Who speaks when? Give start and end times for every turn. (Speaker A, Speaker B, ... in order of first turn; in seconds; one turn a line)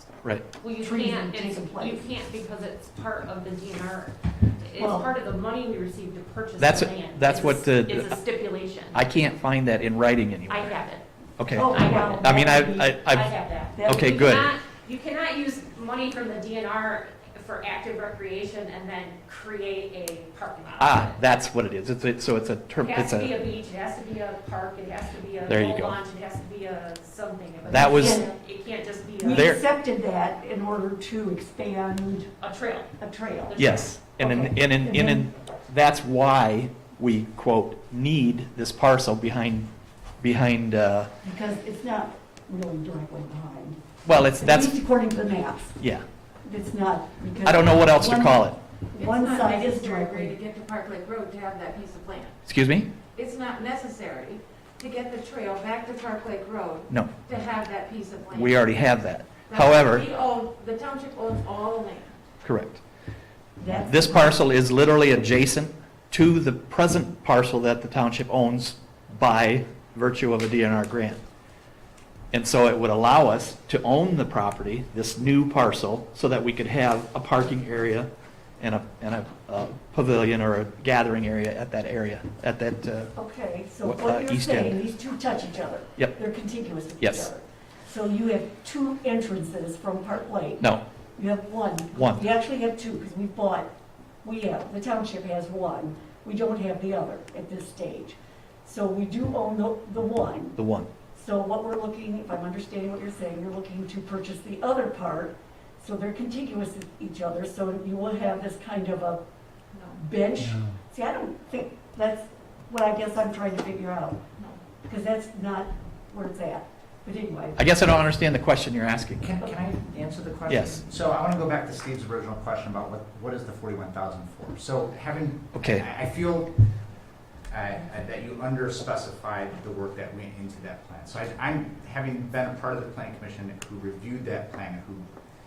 Speaker A: 0.6-9.1
Speaker B: 0.8-2.0
Speaker B: 4.8-5.1
Speaker C: 6.6-8.2
Speaker C: 8.9-10.8
Speaker A: 10.5-12.6
Speaker C: 11.4-13.3
Speaker B: 11.5-14.2
Speaker A: 13.1-21.2
Speaker C: 13.9-14.5
Speaker C: 20.8-23.4
Speaker A: 22.8-29.5
Speaker C: 25.5-26.0
Speaker C: 27.7-28.2
Speaker B: 27.7-28.3
Speaker B: 29.2-32.3
Speaker C: 29.3-29.6
Speaker A: 32.4-32.9
Speaker B: 33.0-33.6
Speaker A: 33.5-34.0
Speaker C: 33.6-39.7
Speaker B: 34.2-35.3
Speaker C: 40.2-41.1
Speaker B: 41.2-43.8
Speaker C: 44.0-44.8
Speaker B: 44.4-45.8
Speaker C: 45.8-46.0
Speaker B: 46.4-50.4
Speaker C: 47.4-48.6
Speaker D: 49.0-52.4
Speaker C: 52.5-52.9
Speaker D: 53.1-58.6
Speaker C: 58.3-60.0
Speaker D: 59.5-62.2
Speaker C: 62.4-62.8
Speaker B: 63.6-64.4
Speaker C: 63.8-71.2
Speaker C: 72.3-83.1
Speaker B: 83.2-90.6
Speaker C: 83.8-84.8
Speaker C: 87.0-87.3
Speaker B: 91.2-93.7
Speaker C: 92.0-92.2
Speaker B: 94.2-100.6
Speaker C: 100.6-100.9
Speaker B: 101.1-109.2
Speaker D: 109.7-110.0
Speaker B: 110.0-114.2
Speaker B: 114.9-117.6
Speaker C: 117.6-119.3
Speaker E: 119.2-126.6
Speaker C: 120.5-120.8
Speaker C: 125.5-125.9
Speaker E: 127.5-135.1